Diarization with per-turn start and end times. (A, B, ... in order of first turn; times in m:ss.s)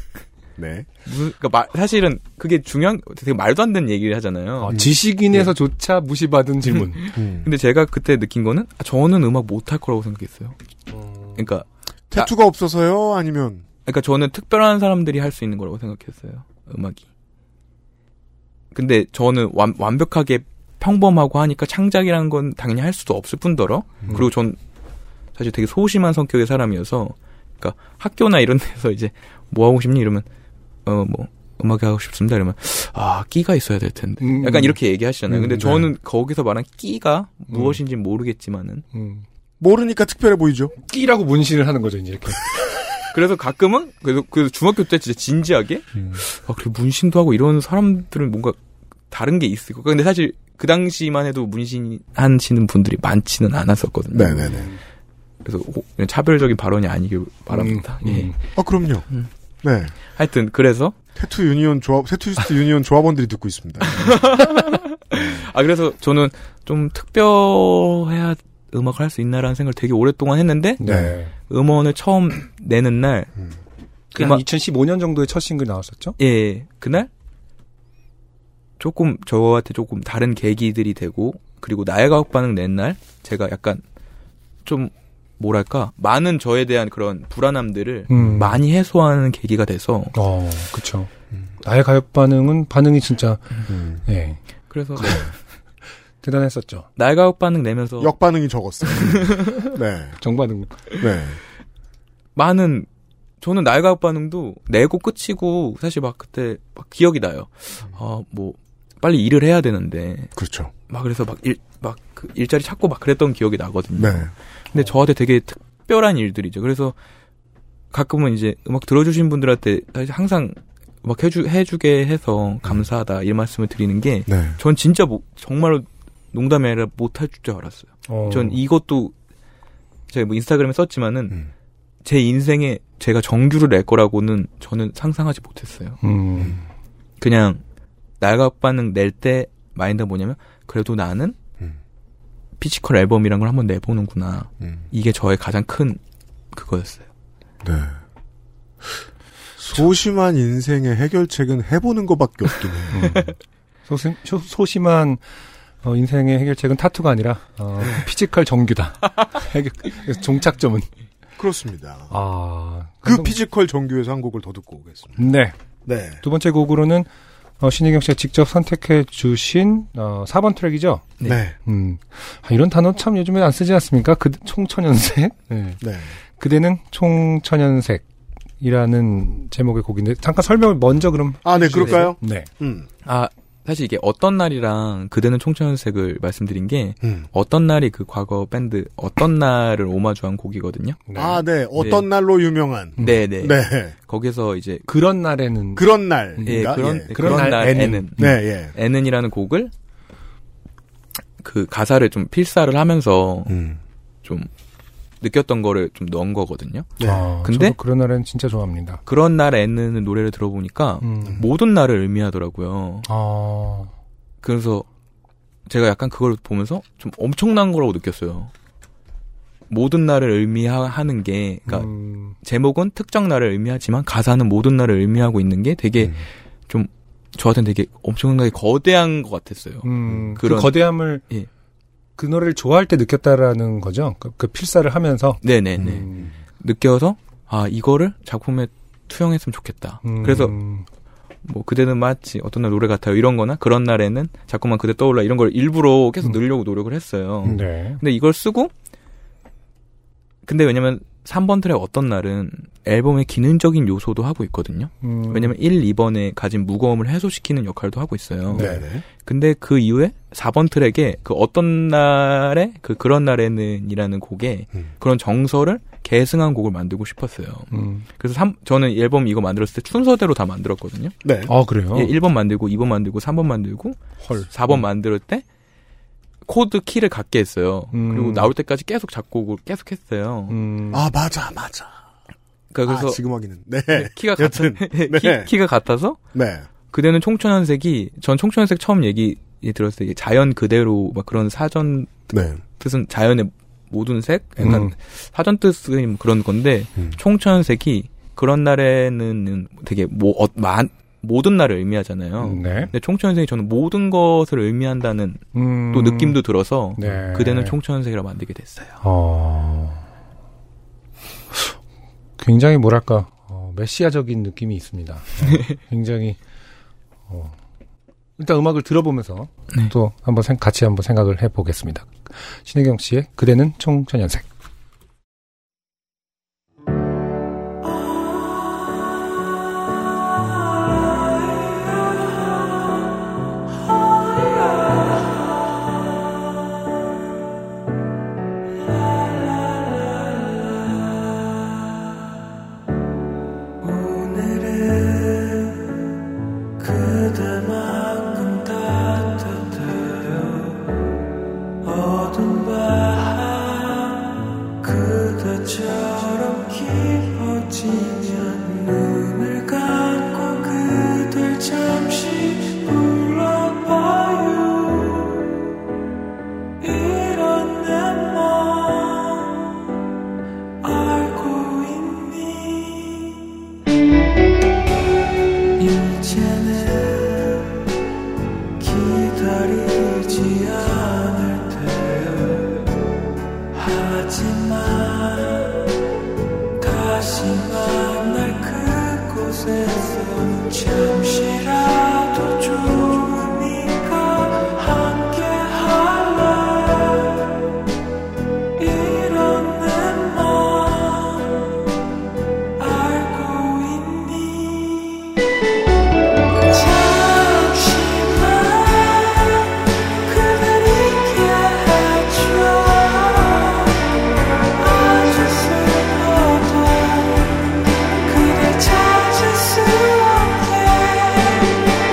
0:00.6-0:00.9 A
0:01.0-0:04.7 B
0:04.6-0:07.0 C
0:04.7-0:05.5 A
0:07.0-0:10.6 B
0:07.1-0:07.5 A
0:10.9-0:11.4 C
0:11.3-0:12.3 B
0:12.1-0:13.6 A
0:13.8-0:17.0 B
0:18.7-0:24.6 B
0:25.4-0:30.2 B
0:30.8-0:38.8 B
0:34.2-0:34.8 C
0:35.3-0:35.9 A
0:37.5-0:37.8 C
0:38.9-0:39.2 C
0:39.6-0:40.7 A
0:40.8-0:42.5 C
0:43.1-0:48.6 B
0:49.1-0:54.5 B
0:54.1-0:54.7 A
0:54.3-0:54.8 C
0:55.4-0:58.3 B
0:57.5-0:58.4 C
0:58.5-0:59.1 A
0:59.6-0:59.9 A
1:00.1-1:01.0 B
1:01.2-1:04.3 A
1:03.8-1:10.8 B
1:05.1-1:05.4 A
1:10.8-1:11.3 C
1:10.8-1:11.1 A
1:11.5-1:13.3 B
1:14.1-1:16.2 C
1:14.2-1:14.4 B
1:16.2-1:17.1 B
1:18.8-1:23.8 B
1:24.6-1:30.1 B
1:28.1-1:28.6 C
1:30.1-1:31.1 C
1:31.6-1:33.5 C
1:33.7-1:34.0 A
1:34.0-1:34.4 C
1:34.7-1:35.3 B
1:34.9-1:35.3 C
1:36.2-1:36.8 C
1:37.0-1:38.1 B
1:38.0-1:40.2 A
1:39.0-1:39.6 B
1:40.2-1:40.7 C
1:41.0-1:41.4 A
1:42.4-1:42.9 B
1:43.4-1:50.3 B
1:50.4-1:50.7 A
1:50.9-1:57.0 B
1:54.0-1:54.3 A
1:57.9-2:09.1 B
2:04.3-2:04.6 A
2:08.1-2:08.6 C
2:10.1-2:11.4 B
2:12.0-2:16.0 B
2:16.0-2:16.6 C
2:17.2-2:17.6 B
2:18.2-2:21.4 B
2:22.6-2:26.0 B
2:26.5-2:27.0 B
2:27.6-2:28.0 A
2:29.6-2:33.3 A
2:32.9-2:33.3 C
2:33.9-2:35.2 C
2:35.8-2:40.9 C
2:41.4-2:42.1 A
2:42.1-2:43.4 C
2:43.0-2:45.2 A
2:45.2-2:45.5 C
2:45.8-2:46.2 A
2:46.2-2:47.1 C
2:47.6-2:51.0 C
2:51.2-2:51.6 A
2:51.6-2:55.8 C
2:55.8-2:56.1 A
2:56.4-2:58.0 C
2:58.6-3:02.5 C
3:01.4-3:02.9 A
3:01.8-3:02.1 B
3:03.0-3:11.0 B
3:07.0-3:07.3 A
3:11.1-3:11.4 C
3:11.1-3:13.9 A
3:11.8-3:12.0 B
3:13.0-3:13.2 C
3:13.0-3:14.8 B
3:14.9-3:15.8 C
3:15.8-3:18.8 A
3:16.4-3:18.4 C
3:16.4-3:19.7 B
3:21.4-3:23.5 B
3:23.5-3:23.8 A
3:25.2-3:26.9 B
3:27.0-3:27.3 A
3:27.0-3:29.0 C
3:27.4-3:27.8 B
3:29.0-3:33.1 B
3:31.0-3:31.4 C
3:33.0-3:33.9 C
3:34.4-3:34.8 B
3:35.7-3:38.5 B
3:39.7-3:51.5 B
3:41.7-3:42.4 C
3:49.8-3:51.2 C
3:50.1-3:50.3 A
3:52.2-3:56.3 C
3:55.4-3:56.0 B
3:55.8-3:56.2 A
3:56.6-4:00.6 B
4:00.0-4:00.8 C
4:01.4-4:08.7 B
4:07.4-4:08.0 C
4:10.4-4:31.1 B
4:15.0-4:15.6 C
4:18.5-4:19.0 A
4:18.5-4:18.8 C
4:27.7-4:28.0 C
4:31.2-4:31.5 A
4:31.5-4:32.2 C
4:31.9-4:35.4 B
4:34.2-4:34.5 C
4:36.4-4:40.6 B
4:37.9-4:38.5 C
4:40.5-4:41.0 C
4:40.9-4:41.9 A
4:42.7-4:43.2 B
4:42.8-4:45.5 A
4:43.9-4:46.2 B
4:46.3-4:46.6 A
4:46.9-5:09.0 B
4:52.3-4:52.6 A
4:54.6-4:54.9 C
5:02.4-5:02.9 C
5:05.5-5:06.4 C
5:07.0-5:07.8 C
5:09.0-5:10.0 C
5:12.4-5:16.4 C
5:15.4-5:15.8 B
5:17.3-5:17.6 C
5:18.4-5:24.4 C
5:31.5-5:32.8 D
5:33.9-5:35.3 D
5:38.8-5:41.1 D
5:43.8-5:45.8 D
5:46.8-5:50.9 D
5:51.8-6:05.5 D
6:06.8-6:09.7 D
6:10.8-6:13.4 D
6:15.8-6:17.7 D
6:18.8-6:22.8 D
6:23.7-6:25.9 D
6:26.8-6:37.5 D
6:38.8-6:41.7 D
6:42.8-6:45.3 D
6:46.7-6:54.0 D
6:54.8-7:01.8 D